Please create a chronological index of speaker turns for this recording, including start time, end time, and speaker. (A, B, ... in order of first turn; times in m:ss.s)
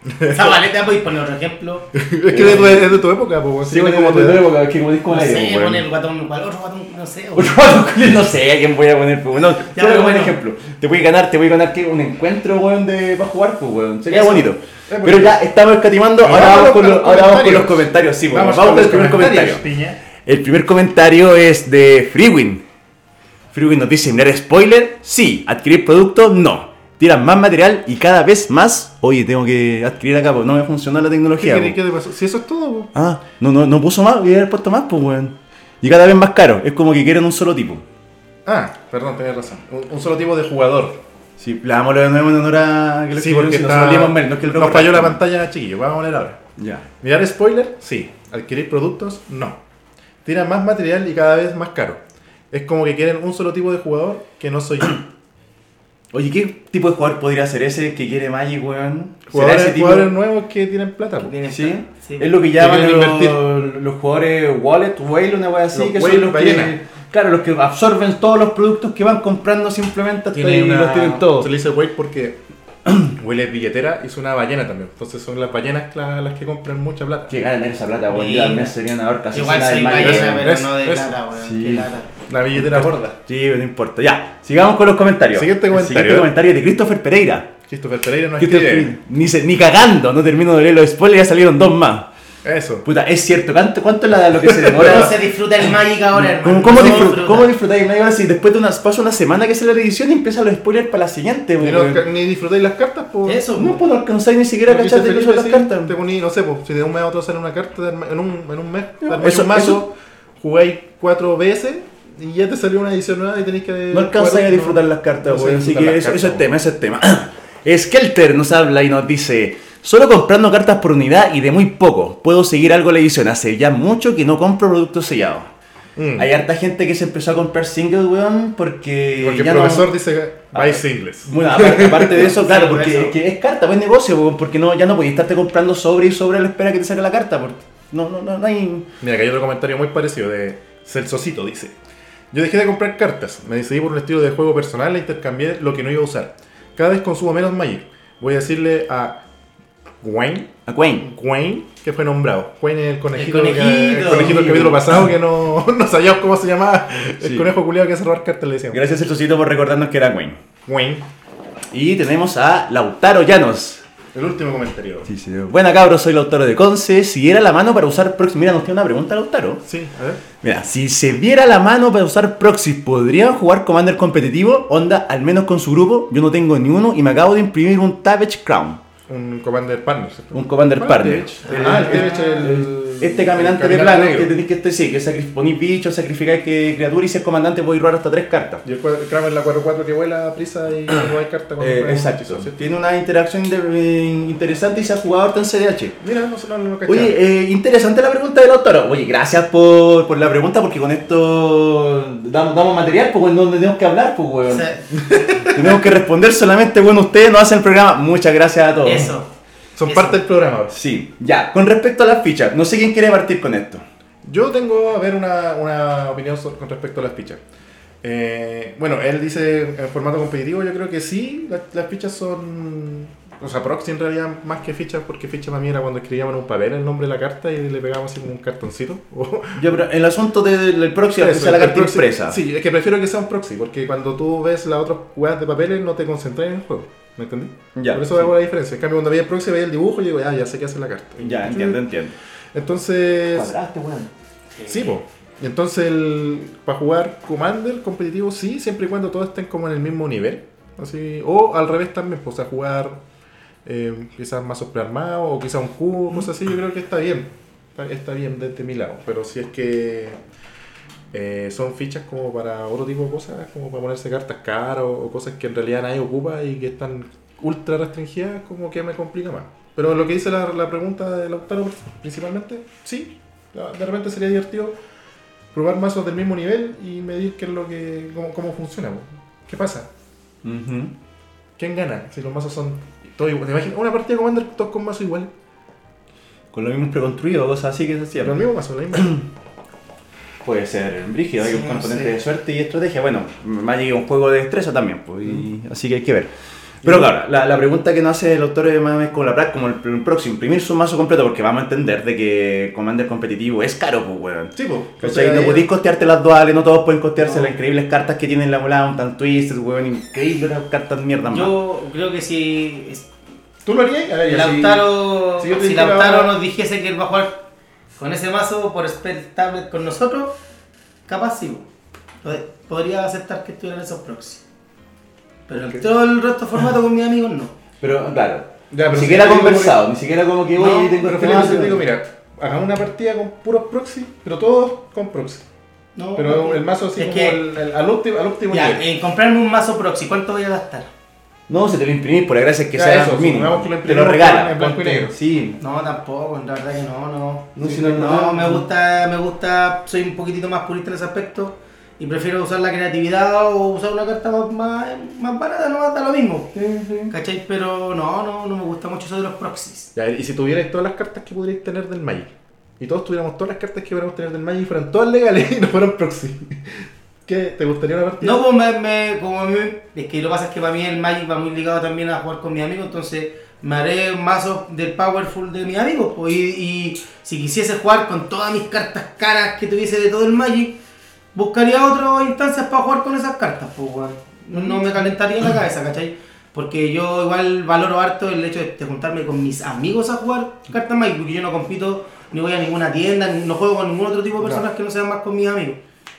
0:00.2-0:00.5 A
0:00.2-0:01.9 B
0:01.9-0:04.5 A
0:02.3-0:03.0 C
0:03.6-0:05.8 C
0:05.1-0:07.7 B
0:07.3-0:19.6 C
0:09.7-0:10.4 B
0:14.1-0:14.5 B
0:14.9-0:15.4 A
0:16.2-0:20.0 A
0:20.2-0:22.6 C
0:23.5-0:31.8 C
0:31.4-0:32.9 A
0:32.9-0:37.8 C
0:38.4-0:41.0 A
0:41.4-0:45.2 C
0:43.1-0:46.4 A
0:46.6-0:46.8 C
0:47.0-0:49.6 A
0:50.2-0:55.0 A
0:56.1-1:00.1 C
0:59.3-1:01.3 A
1:01.2-1:02.3 B
1:01.4-1:11.5 C
1:02.6-1:03.4 A
1:05.7-1:06.8 A
1:10.3-1:17.3 A
1:17.3-1:20.4 C
1:18.1-1:18.7 B
1:19.3-1:22.1 B
1:19.9-1:21.1 A
1:21.3-1:21.9 C
1:22.3-1:23.2 A
1:22.6-1:27.5 C
1:25.3-1:26.3 A
1:27.7-1:28.9 A
1:28.4-1:32.1 C
1:32.4-1:32.8 A
1:32.8-1:35.2 C
1:34.4-1:35.1 A
1:34.7-1:37.5 B
1:36.1-1:42.0 C
1:41.6-1:43.5 A
1:43.2-1:43.8 B
1:43.6-1:45.9 C
1:44.7-1:56.4 A
1:49.0-1:49.8 C
1:53.9-2:05.5 C
2:06.0-2:06.3 A
2:06.2-2:09.9 C
2:09.2-2:12.4 A
2:10.5-2:18.9 C
2:12.4-2:13.1 B
2:19.0-2:21.7 A
2:22.3-2:29.2 A
2:30.0-2:38.8 A
2:30.7-2:31.1 C
2:33.1-2:34.8 B
2:34.1-2:34.9 C
2:37.2-2:37.5 C
2:38.7-2:40.4 C
2:40.6-2:41.1 A
2:41.7-2:43.8 C
2:44.1-2:45.1 A
2:45.1-2:49.6 C
2:49.6-2:50.2 A
2:50.4-2:58.8 C
2:59.1-3:04.3 A
3:00.3-3:08.6 C
3:01.4-3:02.4 B
3:08.6-3:12.6 A
3:11.6-3:16.0 C
3:16.0-3:17.2 A
3:16.8-3:24.7 C
3:24.5-3:24.8 B
3:25.0-3:25.8 A
3:25.4-3:29.2 C
3:28.8-3:29.3 B
3:29.8-3:30.7 A
3:29.8-3:30.2 B
3:30.7-3:33.8 C
3:34.2-3:37.4 A
3:38.0-3:49.6 A
3:49.6-3:52.4 C
3:51.2-4:01.8 A
3:57.7-3:58.3 C
4:01.2-4:02.1 C
4:02.5-4:03.5 A
4:03.3-4:04.1 C
4:04.6-4:13.0 A
4:13.6-4:20.2 A
4:21.1-4:34.7 A
4:35.5-4:39.9 A
4:40.4-4:40.9 C
4:41.6-4:45.3 A
4:46.5-4:48.4 C
4:48.2-4:49.2 A
4:48.9-4:49.2 C
4:50.4-4:56.3 C
4:51.4-4:52.1 B
4:56.8-4:57.1 A
4:56.8-5:11.5 C
5:04.5-5:05.7 A
5:07.2-5:07.5 B
5:11.3-5:13.1 B
5:13.6-5:14.8 A
5:14.2-5:17.4 B
5:15.4-5:16.3 A
5:18.0-5:20.4 B
5:21.1-5:21.7 B
5:22.2-5:24.4 B
5:25.5-5:27.5 B
5:25.6-5:25.8 A
5:27.8-5:31.8 C
5:28.7-5:29.8 A
5:30.6-5:31.0 B
5:31.0-5:35.4 A
5:36.0-5:37.4 B
5:36.2-5:38.8 A
5:38.5-5:40.9 B
5:41.5-5:45.6 C
5:42.7-5:45.1 A
5:45.6-5:56.5 B
5:47.6-5:48.6 C
5:47.6-5:47.8 A
5:56.5-5:57.1 C
5:57.1-5:59.9 B
5:59.9-6:08.4 A
6:08.2-6:20.8 B
6:21.3-6:35.8 B
6:24.5-6:24.8 A